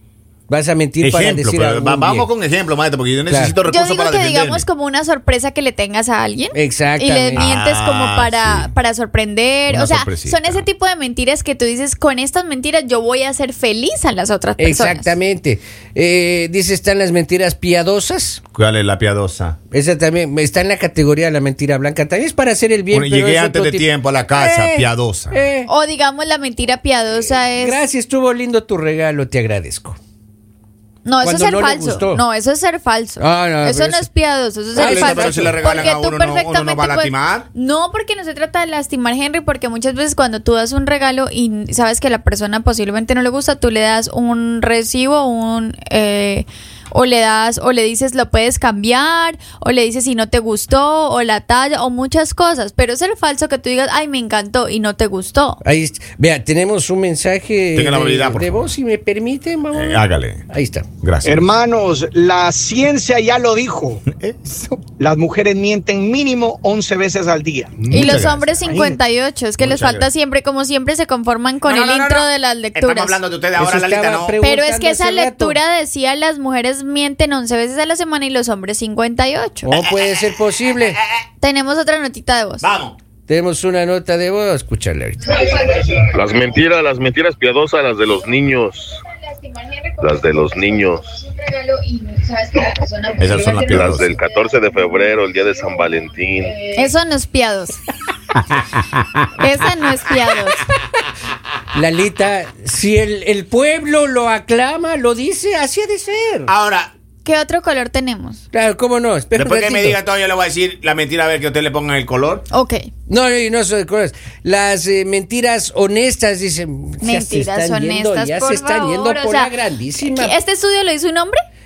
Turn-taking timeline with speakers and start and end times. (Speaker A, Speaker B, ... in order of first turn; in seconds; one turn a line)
Speaker A: 0.5-2.3
Speaker B: 1.0-4.7
Speaker A: 3.3-3.6
Speaker C: 3.6-15.1
Speaker A: 6.5-7.5
Speaker B: 7.3-8.7
Speaker B: 9.7-10.7
Speaker A: 14.6-18.4
Speaker B: 18.6-19.6
Speaker A: 19.7-25.7
Speaker B: 22.9-25.4
Speaker C: 25.7-27.8
Speaker A: 27.5-30.0
Speaker C: 31.0-55.6
Speaker A: 31.2-32.2
Speaker A: 33.2-34.1
Speaker A: 34.8-35.9
Speaker B: 34.8-37.5
Speaker A: 55.6-60.9
Speaker B: 57.8-58.7
Speaker B: 59.7-60.4
Speaker B: 61.0-61.4
Speaker D: 61.2-64.0
Speaker B: 64.2-64.7
Speaker D: 64.7-68.3
Speaker C: 67.9-73.2
Speaker B: 67.9-68.6
Speaker A: 68.7-69.0
Speaker B: 69.6-70.1
Speaker B: 71.7-74.4
Speaker A: 73.6-75.6
Speaker C: 74.4-79.7
Speaker A: 79.7-81.0
Speaker B: 80.8-81.2
Speaker C: 81.4-82.7
Speaker B: 82.6-83.0
Speaker A: 83.3-85.5
Speaker E: 86.0-89.0
Speaker E: 90.0-91.1
Speaker B: 93.2-94.2
Speaker E: 93.3-96.6
Speaker C: 96.7-97.8
Speaker B: 98.4-99.3
Speaker C: 99.4-100.7
Speaker A: 101.7-106.5
Speaker B: 106.5-106.9
Speaker C: 107.2-108.4
Speaker A: 108.5-110.0
Speaker B: 109.3-112.4
Speaker C: 112.5-112.9
Speaker A: 113.1-120.4
Speaker C: 117.0-121.4